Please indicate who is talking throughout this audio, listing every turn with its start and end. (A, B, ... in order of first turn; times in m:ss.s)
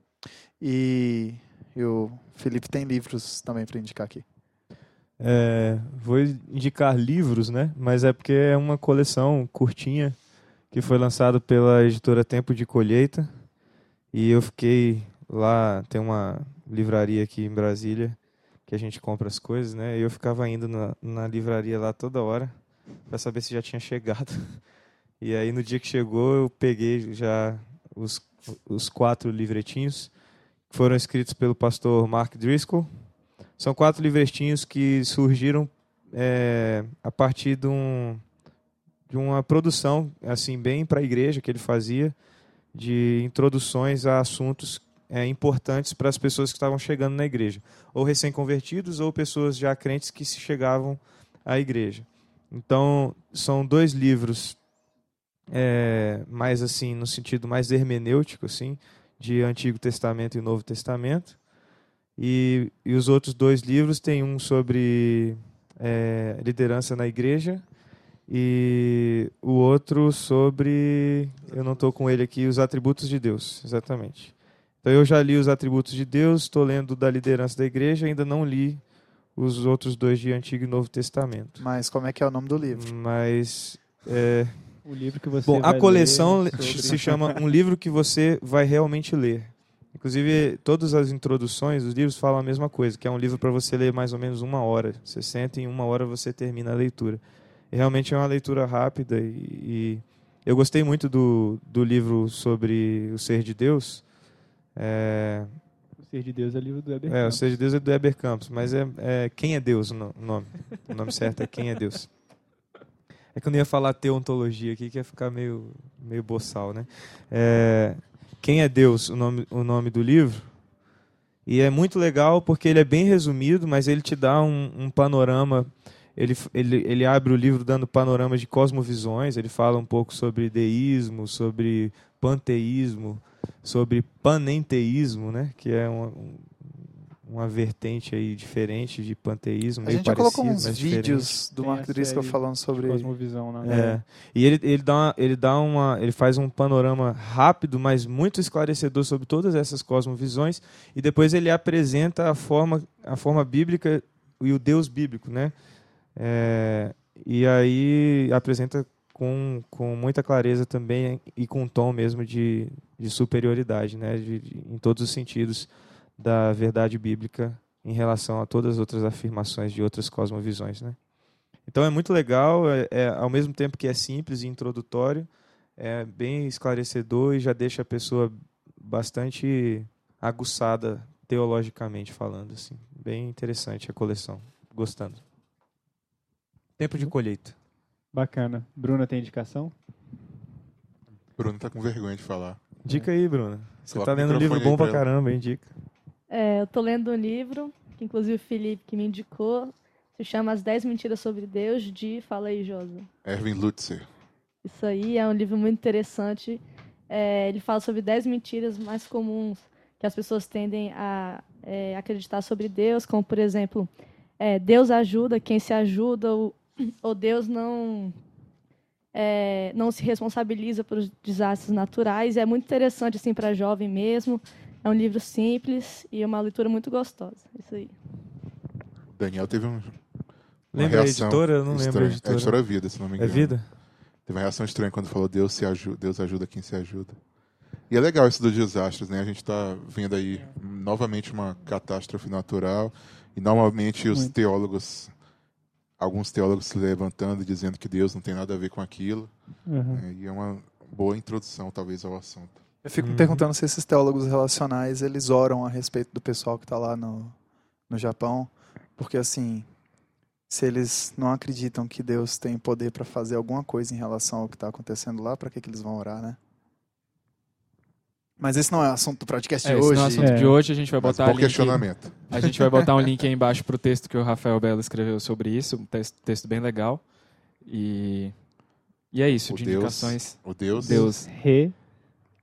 0:00.6-0:04.2 A
0:05.2-0:10.2 B
0:10.7-0:13.3 B
0:14.1-0:22.6 B
0:23.1-0:24.6 B
0:25.2-0:30.1 B
0:30.7-0:32.9 B
0:33.6-0:38.2 B
0:39.1-0:42.2 B
0:42.7-0:54.6 B
0:55.5-1:01.4 B
1:02.2-1:07.6 B
1:08.3-1:18.8 B
1:19.4-1:21.6 B
1:21.6-1:22.9 A
1:22.7-1:24.6 B
1:24.8-1:27.3 C
1:25.4-1:44.0 B
1:44.8-1:45.5 B
1:46.1-1:47.4 C
1:47.1-1:52.1 B
1:53.4-2:00.5 B
2:01.5-2:21.4 B
2:19.8-2:23.1 A
2:21.6-2:23.8 C
2:23.6-2:35.6 B
2:23.6-2:24.0 A
2:36.2-2:51.0 B
2:51.7-3:05.2 B
3:06.8-3:07.6 B
3:08.1-3:09.7 C
3:11.4-3:12.6 D
3:12.8-3:15.7 B
3:13.9-3:15.0 D
3:16.3-3:23.1 E
3:23.2-3:24.1 D
3:24.6-3:38.2 E
3:39.1-3:47.9 E
3:49.1-3:50.0 D
3:50.7-3:53.6 D
3:50.7-3:53.7 B
3:54.3-3:57.2 D
3:57.9-4:05.1 D
4:06.0-4:09.3 D
4:09.7-4:10.0 C
4:09.8-4:12.6 D
4:12.8-4:17.4 A
4:13.0-4:13.4 B
4:17.9-4:19.7 A
4:20.5-4:26.4 A
4:28.4-4:30.3 A
4:29.6-4:37.1 F
4:30.2-4:30.6 C
4:30.9-4:32.5 D
4:37.6-4:38.4 F
4:39.1-4:41.3 F
4:39.5-4:41.1 D
4:40.8-4:41.8 C